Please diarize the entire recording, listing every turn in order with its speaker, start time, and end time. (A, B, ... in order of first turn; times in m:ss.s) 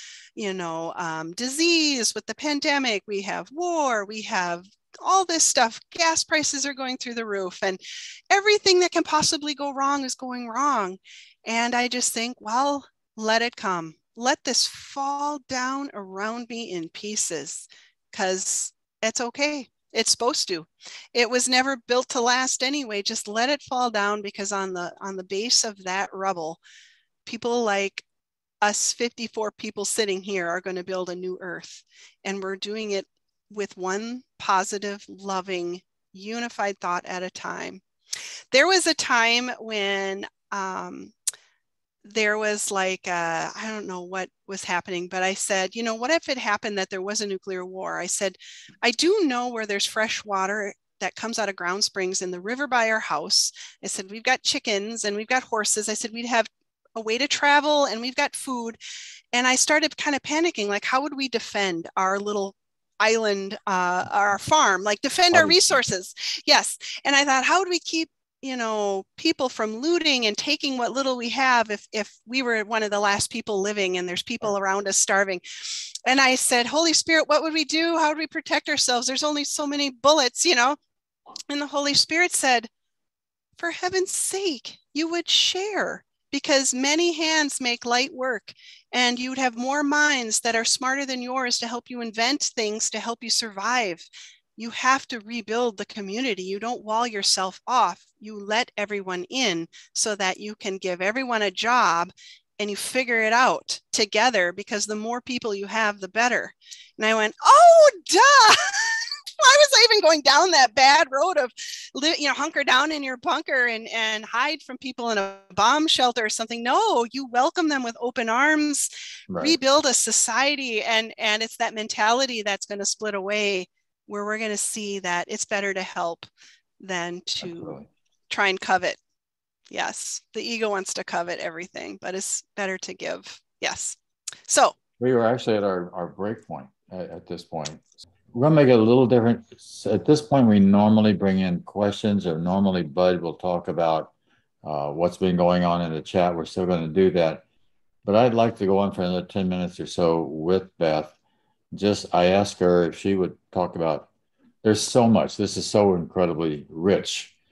0:00.4-0:07.8 A
0:08.3-0:26.6 A
0:27.3-0:28.0 A
0:28.6-0:37.8 A
0:38.5-0:41.1 A
0:42.0-0:58.8 A
0:59.3-1:15.4 A
1:05.3-1:05.8 B
1:16.1-1:20.8 A
1:21.5-1:22.7 A
1:23.6-2:06.3 A
1:59.3-1:59.6 B
2:06.8-2:07.8 A
2:07.4-2:07.9 B
2:08.3-2:09.0 A
2:09.7-2:14.0 A
2:14.5-2:14.8 A
2:15.0-2:24.1 B
2:24.6-2:27.4 B
2:28.0-2:31.1 B
2:31.7-2:34.1 B
2:34.6-2:37.3 B